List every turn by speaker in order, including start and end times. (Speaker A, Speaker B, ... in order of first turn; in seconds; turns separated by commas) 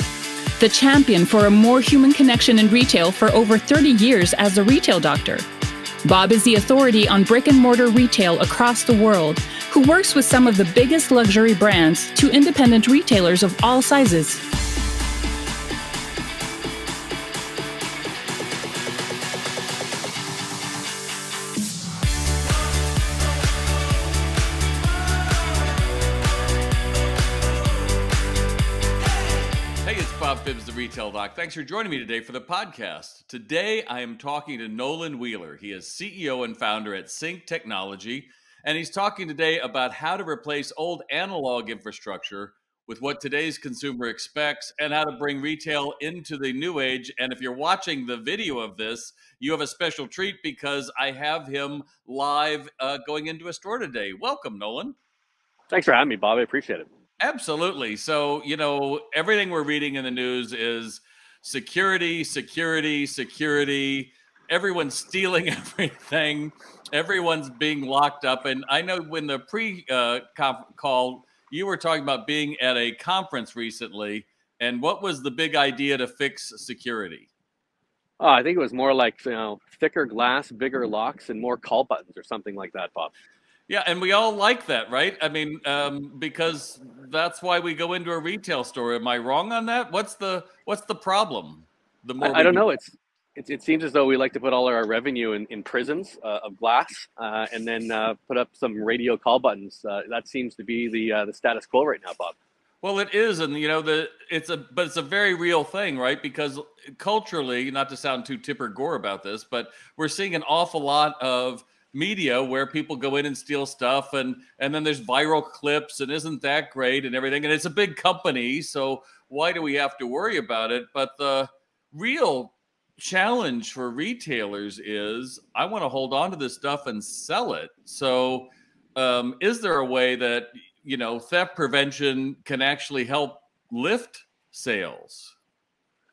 Speaker A: 0.6-5.5, Speaker A: 6.0-14.4, Speaker B: 29.8-55.0, Speaker C: 55.7-56.9, Speaker B: 57.2-77.3, Speaker C: 78.2-83.1, Speaker B: 83.7-92.6, Speaker C: 92.2-102.4, Speaker B: 102.8-135.3